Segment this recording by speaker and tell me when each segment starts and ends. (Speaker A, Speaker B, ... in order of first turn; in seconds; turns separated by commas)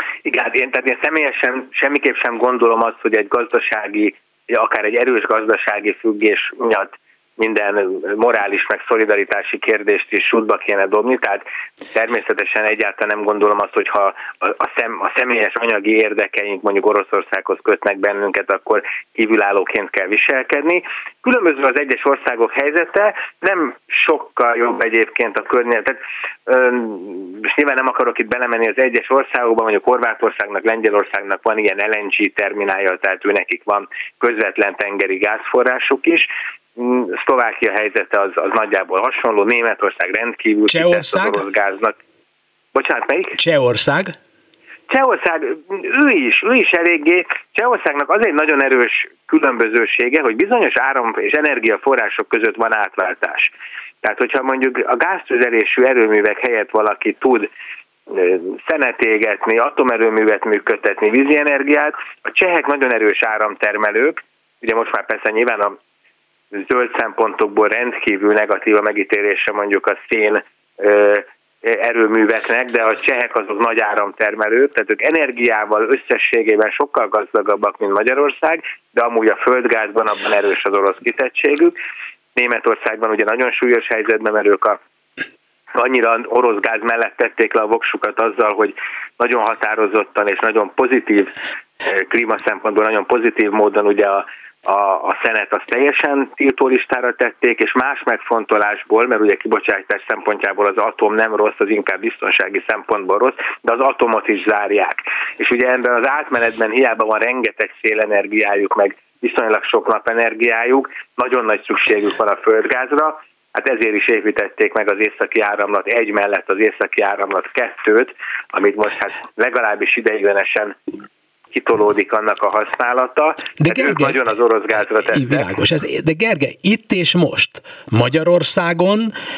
Speaker A: 0.2-42.0, Speaker B: 40.7-41.4, Speaker A: 42.7-43.4, Speaker B: 43.4-44.1, Speaker A: 44.9-53.5, Speaker A: 54.0-57.5, Speaker A: 58.1-65.8, Speaker A: 66.5-81.7, Speaker A: 82.3-84.8, Speaker A: 85.8-91.3, Speaker A: 91.8-120.8, Speaker A: 121.5-125.5, Speaker B: 123.6-124.2, Speaker B: 125.1-129.1